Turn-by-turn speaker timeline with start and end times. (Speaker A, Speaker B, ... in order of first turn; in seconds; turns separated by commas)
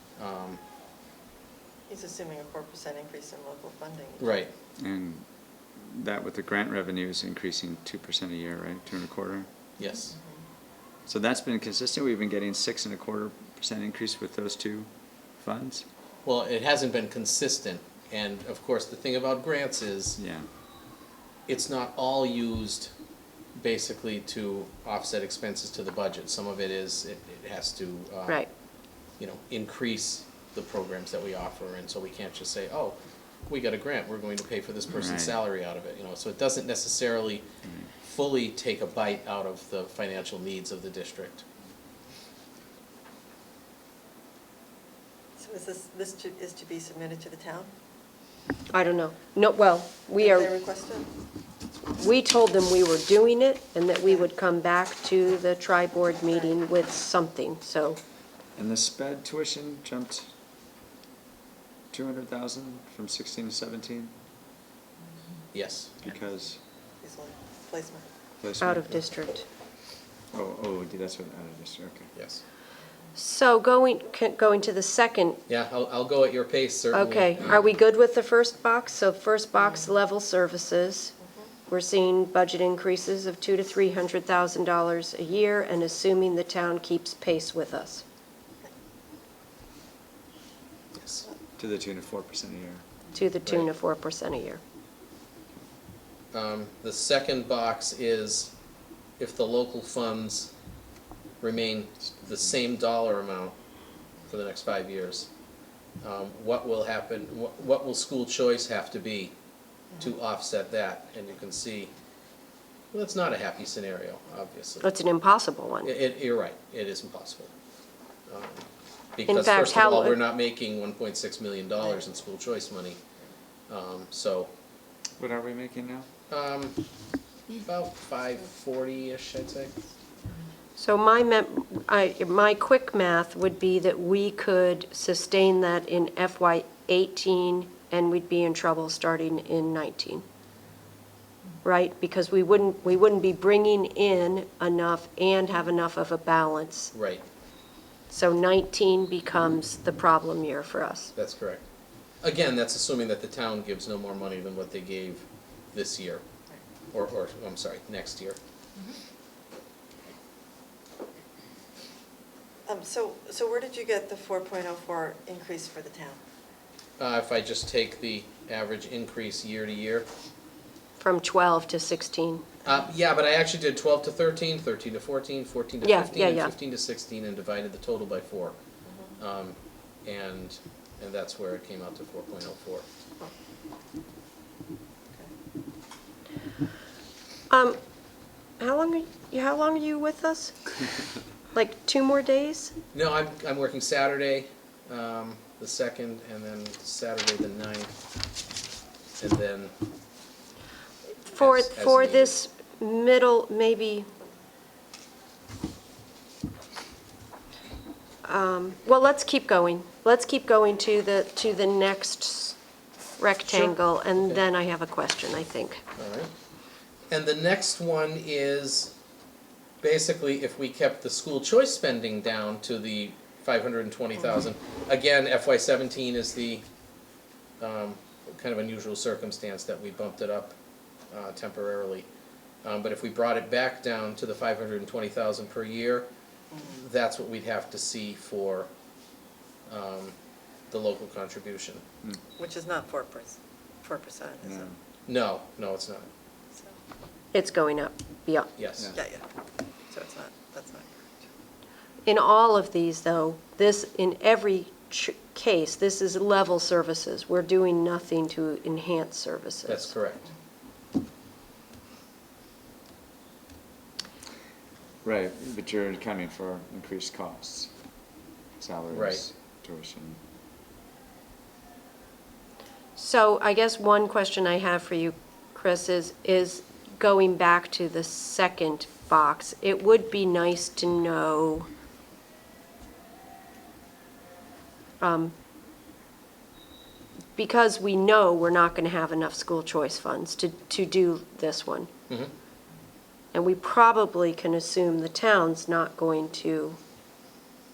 Speaker A: 0.2-0.6, Speaker B: 1.9-4.3, Speaker A: 4.2-4.5, Speaker C: 4.8-9.5, Speaker A: 9.8-10.2, Speaker C: 11.1-15.8, Speaker A: 16.2-20.2, Speaker C: 20.2-20.5, Speaker A: 21.5-22.9, Speaker A: 23.6-28.5, Speaker A: 29.1-41.4, Speaker C: 34.9-35.4, Speaker C: 37.6-37.9, Speaker B: 45.4-47.7, Speaker D: 48.7-50.5, Speaker B: 50.2-51.1, Speaker D: 52.0-58.0, Speaker C: 58.5-60.3, Speaker C: 61.9-64.1, Speaker A: 65.5-66.0, Speaker C: 66.0-66.6, Speaker B: 67.0-68.1, Speaker C: 68.4-69.0, Speaker D: 68.6-69.5, Speaker C: 70.3-72.1, Speaker A: 72.1-72.4, Speaker D: 73.2-75.4, Speaker A: 75.5-77.6, Speaker D: 76.9-81.1, Speaker D: 81.7-88.0, Speaker A: 90.9-91.2, Speaker C: 91.6-92.8, Speaker D: 93.1-94.6, Speaker A: 96.3-98.5, Speaker A: 99.2-100.5, Speaker A: 101.4-103.5, Speaker A: 104.2-105.3, Speaker A: 106.0-109.3, Speaker A: 110.0-111.9, Speaker A: 112.9-114.9, Speaker D: 114.8-115.9, Speaker A: 115.8-117.5, Speaker A: 118.3-123.0, Speaker D: 119.3-120.2, Speaker A: 123.7-124.5, Speaker C: 125.2-126.1, Speaker A: 126.3-126.8, Speaker A: 127.5-129.8, Speaker D: 130.8-140.2, Speaker D: 141.6-146.9, Speaker A: 146.9-147.2, Speaker D: 148.1-151.1, Speaker A: 151.2-151.6, Speaker A: 152.2-156.2, Speaker A: 156.9-158.4, Speaker B: 162.7-166.2, Speaker A: 167.0-170.1, Speaker D: 171.0-172.4, Speaker A: 172.6-178.6, Speaker D: 175.8-176.5, Speaker B: 178.8-179.1, Speaker A: 179.2-182.8, Speaker D: 187.5-187.8, Speaker D: 188.6-190.8, Speaker D: 191.5-192.7, Speaker A: 192.9-197.9, Speaker A: 199.2-199.7, Speaker D: 201.3-204.1, Speaker A: 201.4-202.3, Speaker D: 208.2-212.6, Speaker D: 213.2-215.8, Speaker A: 213.5-214.4, Speaker A: 216.0-216.3, Speaker A: 217.1-218.9, Speaker A: 219.8-226.7, Speaker A: 227.6-230.6, Speaker A: 231.1-232.1, Speaker A: 232.6-236.1, Speaker A: 236.6-238.7, Speaker A: 239.7-241.8, Speaker B: 242.4-244.7, Speaker C: 244.4-244.8, Speaker A: 245.1-246.1, Speaker D: 247.3-248.5, Speaker A: 248.6-248.9, Speaker B: 248.9-249.2, Speaker B: 249.9-251.2, Speaker D: 252.1-259.9, Speaker A: 259.7-260.3, Speaker C: 265.0-267.7, Speaker C: 268.6-270.2, Speaker A: 268.9-269.2, Speaker D: 272.9-281.7, Speaker D: 285.0-285.3, Speaker D: 287.4-291.9, Speaker D: 293.3-296.8